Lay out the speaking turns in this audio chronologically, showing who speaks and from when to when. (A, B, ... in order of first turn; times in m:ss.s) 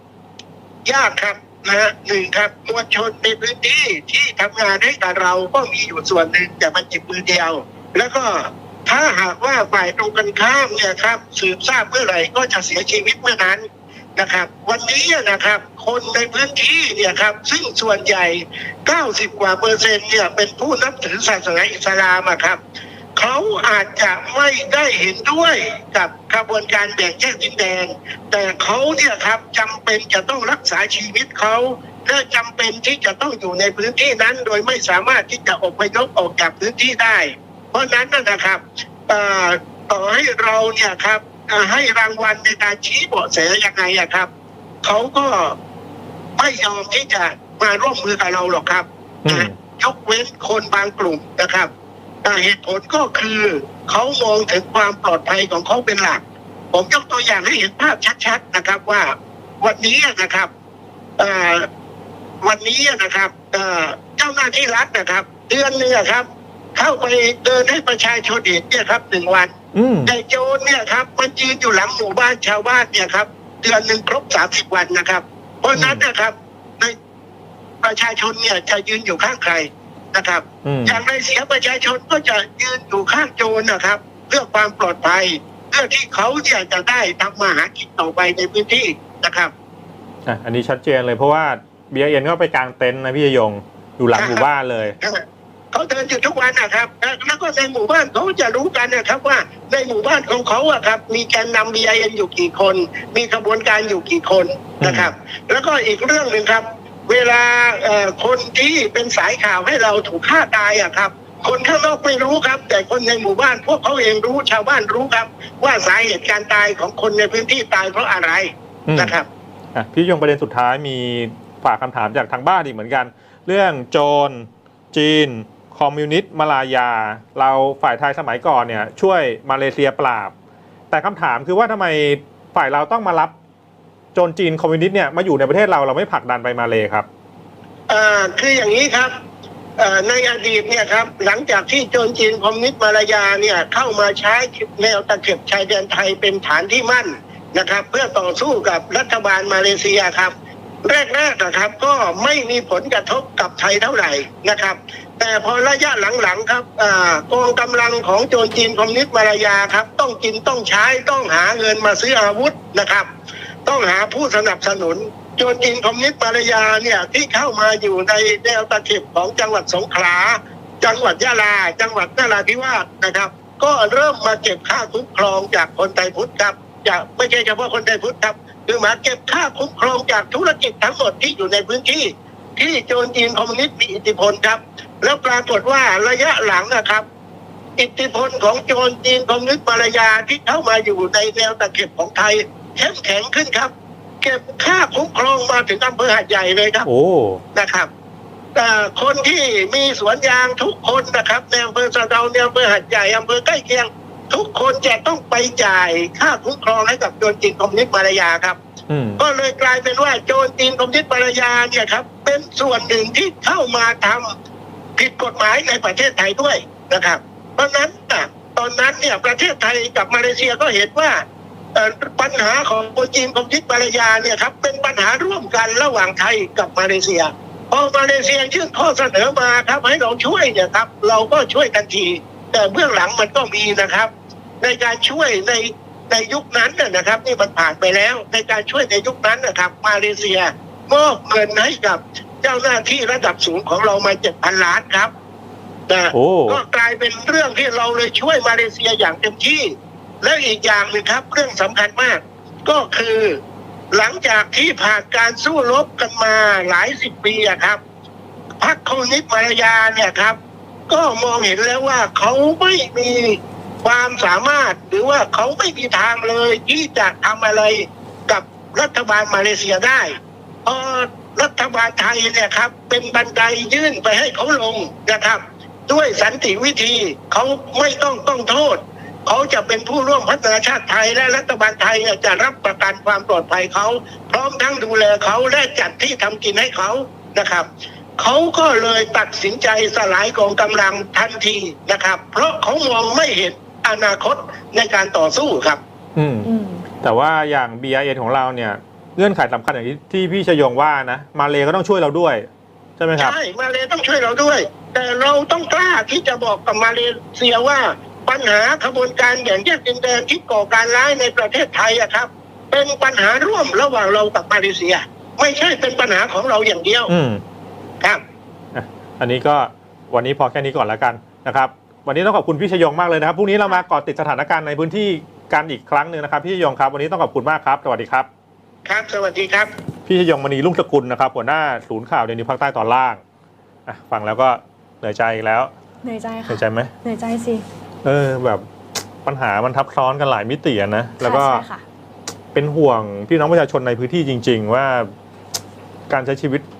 0:00.8-0:13.6 A
0:14.2-0:22.6 A
0:23.2-0:44.3 A
0:44.8-0:45.6 A
0:46.4-0:51.7 A
0:49.2-0:49.5 B
0:52.2-1:00.5 A
1:01.2-1:01.7 A
1:02.4-1:09.5 A
1:09.7-1:10.1 B
1:10.0-1:17.0 A
1:15.8-1:16.0 B
1:17.8-1:29.5 A
1:20.6-1:21.0 B
1:30.2-1:35.0 B
1:34.1-1:34.4 A
1:35.0-1:59.3 A
1:44.8-1:45.1 B
1:58.9-1:59.1 B
1:59.7-2:10.3 B
2:10.9-2:13.3 B
2:14.1-2:17.0 B
2:17.9-2:19.1 A
2:19.8-2:43.1 A
2:43.6-3:07.0 A
3:07.8-3:16.9 A
3:16.8-3:17.4 B
3:17.5-3:17.9 A
3:18.5-3:28.6 A
3:28.9-3:29.2 B
3:29.2-3:34.3 A
3:35.0-3:41.2 A
3:41.7-3:54.1 A
3:54.6-4:05.1 A
4:05.9-4:13.4 A
4:06.1-4:06.6 B
4:13.9-4:17.8 A
4:18.6-4:20.4 A
4:20.9-4:47.7 A
4:48.2-4:55.8 A
4:56.2-4:56.5 B
4:56.4-4:56.8 C
4:57.0-5:03.4 B
5:03.2-5:17.1 A
5:17.1-5:17.4 B
5:18.7-5:28.3 B
5:28.8-5:29.7 A
5:30.0-5:33.2 B
5:33.8-5:35.7 B
5:36.0-5:37.6 C
5:36.5-5:36.9 B
5:38.0-5:38.6 B
5:39.2-5:41.6 B
5:41.2-5:41.8 C
5:42.5-5:45.1 B
5:46.1-5:46.6 B